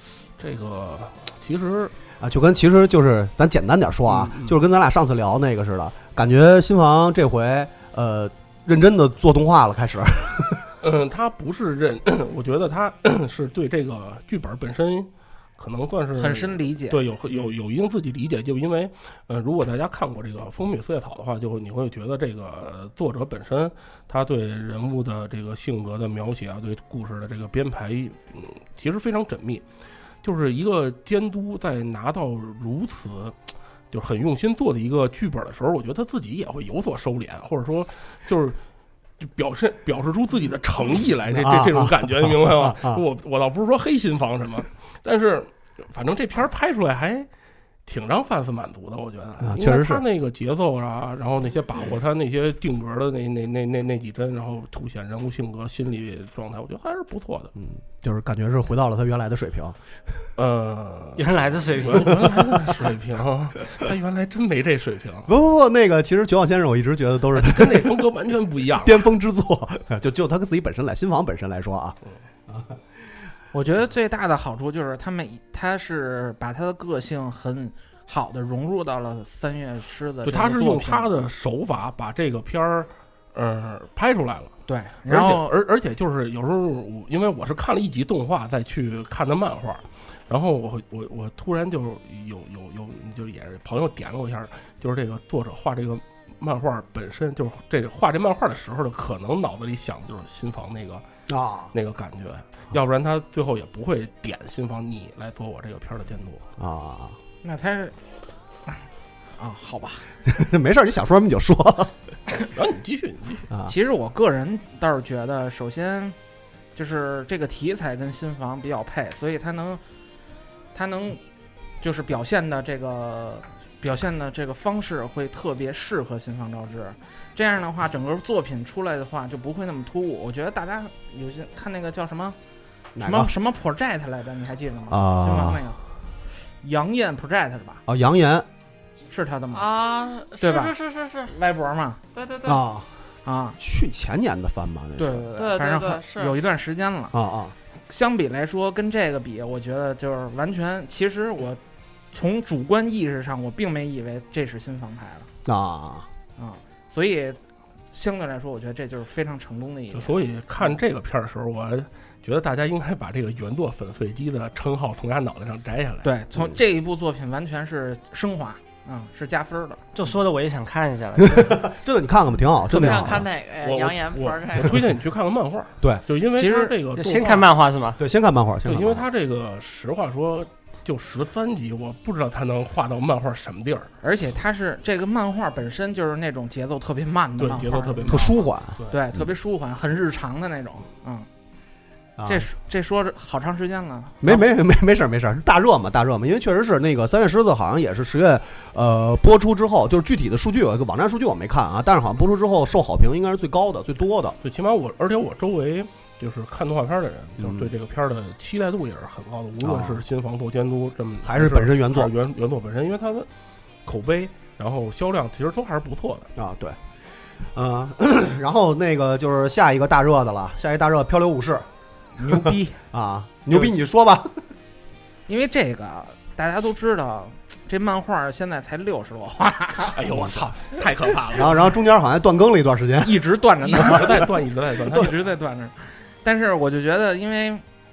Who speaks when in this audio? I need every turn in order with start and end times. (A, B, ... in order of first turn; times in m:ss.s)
0:00.4-0:01.9 A
0:02.2-0:10.7 B
0:04.1-0:04.6 A
0:10.8-0:29.6 A
0:16.1-0:17.1 C
0:30.2-0:33.4 A
0:33.9-0:38.6 A
0:39.2-0:47.3 A
0:41.3-0:43.0 B
0:47.8-0:57.5 A
0:49.4-0:50.0 B
0:57.6-0:59.8 B
1:00.4-1:05.3 A
1:01.2-1:02.3 D
1:05.3-1:07.9 B
1:07.3-1:09.0 A
1:08.8-1:12.0 B
1:12.5-1:12.8 B
1:13.5-1:21.1 C
1:20.2-1:24.5 A
1:24.7-1:25.5 C
1:25.0-1:41.0 A
1:41.3-1:41.7 B
1:41.7-1:46.4 A
1:46.6-1:47.2 B
1:47.4-1:48.0 C
1:49.4-1:50.1 C
1:50.2-1:51.9 B
1:52.5-1:53.5 A
1:53.5-1:53.7 B
1:53.6-1:56.2 C
1:56.7-1:59.8 C
2:00.7-2:01.2 C
2:01.8-2:12.4 C
2:12.9-2:13.3 B
2:13.0-2:15.8 C
2:14.9-2:15.6 B
2:16.6-2:17.8 C
2:17.9-2:18.4 B
2:19.1-2:19.8 C
2:19.5-2:21.3 E
2:20.4-2:20.7 C
2:21.2-2:22.0 C
2:22.1-2:22.6 E
2:22.4-2:22.8 B
2:23.2-2:23.6 C
2:23.6-2:25.3 B
2:25.0-2:27.1 C
2:25.4-2:26.4 E
2:27.1-2:27.5 B
2:27.9-2:31.6 C
2:32.1-2:35.3 C
2:35.4-2:36.1 B
2:36.4-2:40.7 C
2:39.9-2:46.1 A
2:46.0-2:49.8 C
2:49.9-2:51.5 D
2:51.2-2:53.2 B
2:52.7-2:54.8 E
2:52.8-2:57.5 A
2:56.3-2:56.7 C
2:57.0-2:58.0 D
2:58.0-2:59.0 B
2:58.6-3:03.9 A
3:04.0-3:11.3 C
3:07.4-3:09.0 A
3:08.0-3:08.8 B
3:12.2-3:12.5 B
3:12.3-3:14.4 C
3:14.2-3:24.4 B
3:24.4-3:33.3 A
3:27.4-3:27.7 B
3:29.6-3:30.0 B
3:31.2-3:32.1 B
3:33.8-3:36.3 A
3:36.4-3:36.8 B
3:37.5-3:41.7 B
3:42.2-3:42.8 C
3:42.2-3:44.3 B
3:45.3-3:50.0 C
3:49.9-3:51.6 A
3:50.1-3:50.5 B
3:51.3-3:54.2 B
3:53.0-3:54.3 C
3:53.6-3:55.1 A
3:54.8-3:57.6 C